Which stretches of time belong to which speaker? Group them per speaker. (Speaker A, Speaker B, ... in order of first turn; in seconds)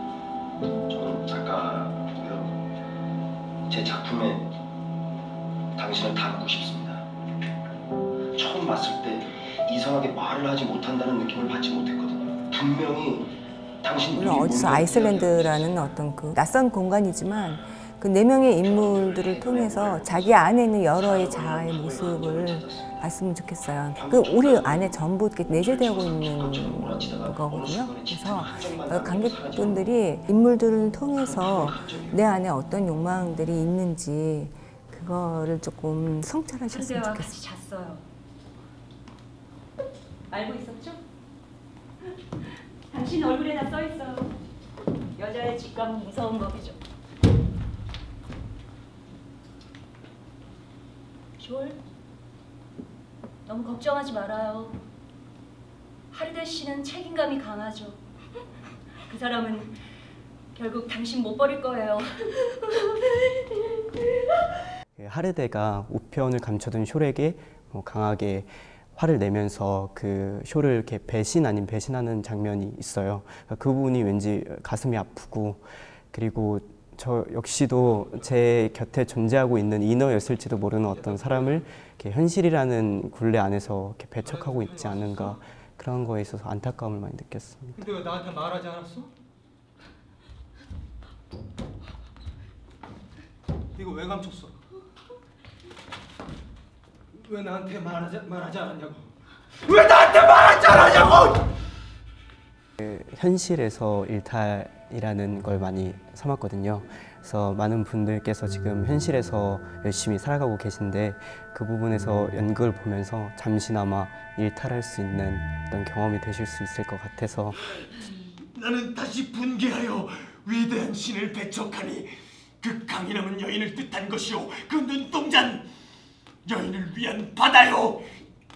Speaker A: 0.9-2.6, 3.7-4.5, 5.8-7.0, 8.3-15.7, 18.6-22.9, 23.9-29.9, 31.1-32.3
Speaker B: 14.1-37.4
Speaker C: 36.7-38.0, 40.3-41.0, 42.9-44.4, 45.1-46.8, 51.4-51.8, 53.5-54.8, 56.1-58.0, 59.0-59.7, 60.5-63.8
Speaker D: 65.0-87.8, 102.8-117.6
Speaker E: 81.0-81.6, 84.2-85.4, 87.8-89.1, 93.8-94.5, 97.1-99.1, 99.6-101.3
Speaker F: 118.6-122.1, 122.6-125.6, 126.5-128.0